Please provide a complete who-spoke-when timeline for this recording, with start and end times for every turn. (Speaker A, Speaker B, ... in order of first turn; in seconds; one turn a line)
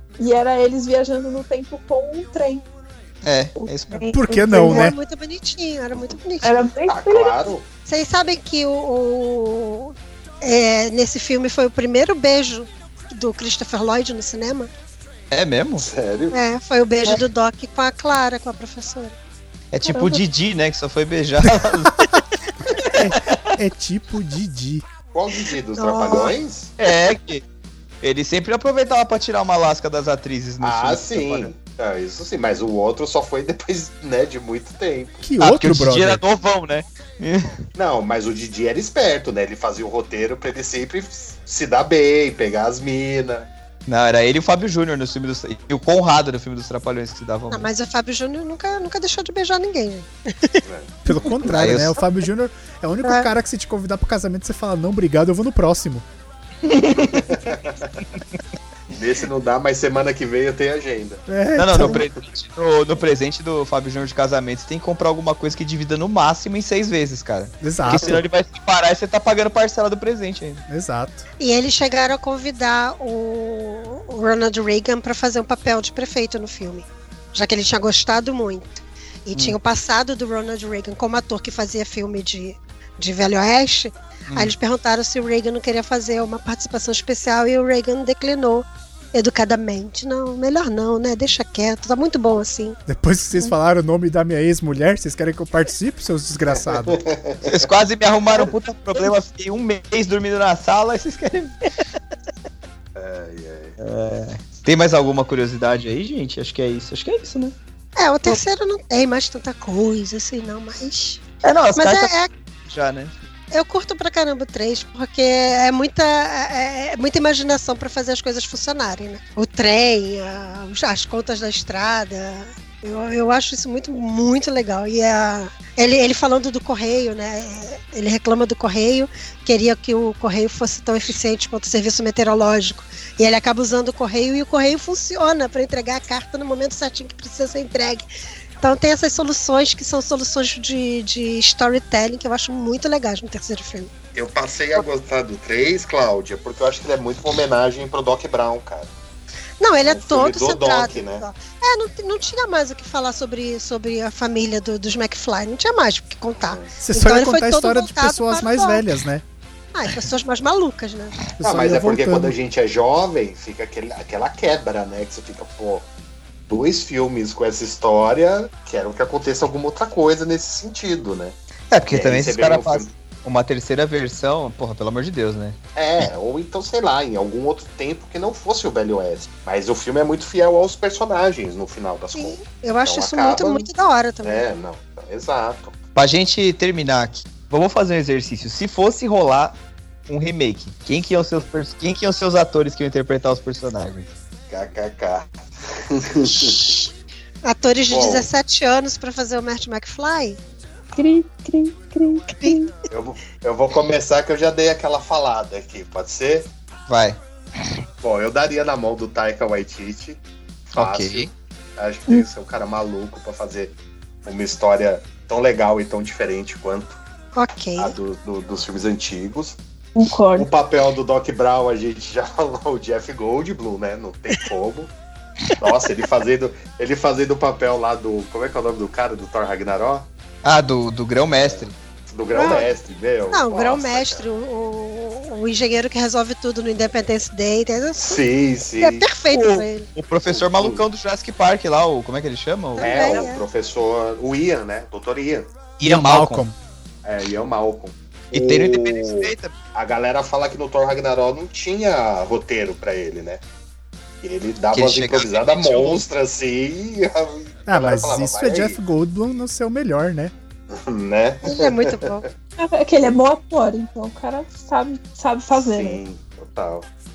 Speaker A: 0.2-2.6
Speaker B: 3.2-4.1
Speaker A: 3.6-4.9
Speaker C: 4.1-5.0
Speaker D: 4.5-6.6
Speaker A: 6.4-7.5
Speaker E: 6.8-7.7
Speaker D: 7.8-14.7
Speaker B: 15.3-15.9
Speaker E: 15.8-16.4
Speaker D: 16.3-19.1
Speaker B: 19.7-22.1
Speaker B: 22.7-23.6
Speaker C: 23.0-24.9
Speaker E: 25.1-26.7
Speaker D: 25.8-26.3
Speaker B: 26.8-27.4
Speaker B: 28.0-31.5
Speaker E: 30.6-35.2
Speaker C: 35.2-36.2
Speaker B: 35.4-37.6
Speaker E: 37.8-43.5
Speaker B: 43.9-47.7
Speaker D: 47.5-50.6
Speaker E: 50.6-50.9
Speaker C: 51.0-56.0
Speaker B: 51.5-52.0
Speaker B: 56.6-57.5
Speaker E: 57.1-57.9
Speaker E: 58.9-61.2
Speaker C: 61.3-62.0
Speaker B: 61.5-70.6
Speaker C: 67.6-68.2
Speaker E: 67.9-68.2
Speaker C: 70.7-71.2
Speaker D: 71.4-92.8
Speaker B: 84.3-84.5
Speaker C: 92.9-97.0
Speaker E: 96.5-97.6
Speaker B: 97.4-101.7
Speaker E: 102.9-103.8
Speaker B: 103.8-107.5
Speaker D: 108.0-111.2
Speaker B: 111.4-113.1
Speaker D: 111.7-112.3
Speaker D: 113.5-138.1
Speaker D: 138.6-143.9
Speaker E: 144.1-148.9
Speaker D: 149.6-158.8
Speaker E: 149.8-151.2
Speaker E: 156.4-156.7
Speaker C: 156.8-159.2
Speaker D: 159.7-161.3
Speaker C: 161.4-162.3
Speaker E: 161.4-165.8
Speaker E: 166.5-171.3
Speaker B: 171.7-175.6
Speaker E: 171.9-172.9
Speaker E: 175.8-183.7
Speaker D: 182.1-184.4
Speaker E: 184.2-185.7
Speaker B: 185.9-189.6
Speaker B: 190.1-194.1
Speaker E: 194.5-195.3
Speaker E: 195.9-196.7
Speaker D: 197.4-200.4
Speaker E: 197.9-198.3
Speaker A: 200.9-202.7
Speaker D: 202.4-202.6
Speaker E: 202.9-206.5
Speaker B: 206.9-207.7
Speaker E: 208.0-210.2
Speaker E: 210.7-217.0
Speaker B: 210.8-211.3
Speaker D: 217.3-217.9
Speaker E: 217.8-219.6
Speaker A: 219.9-220.5
Speaker E: 220.3-224.9
Speaker E: 225.6-230.1
Speaker B: 230.4-231.7
Speaker E: 232.1-234.3
Speaker D: 232.3-232.7
Speaker D: 233.3-238.2
Speaker E: 238.0-239.1
Speaker D: 238.8-239.9
Speaker B: 239.3-243.2
Speaker E: 240.3-240.8
Speaker D: 242.8-243.4
Speaker E: 242.8-245.5
Speaker B: 245.8-246.4
Speaker C: 245.8-246.6
Speaker E: 247.0-253.4
Speaker B: 248.3-249.5
Speaker E: 254.2-258.8
Speaker B: 254.7-256.0
Speaker C: 257.7-260.3
Speaker E: 260.7-262.2
Speaker D: 261.4-262.2
Speaker A: 262.6-266.0
Speaker E: 265.5-266.9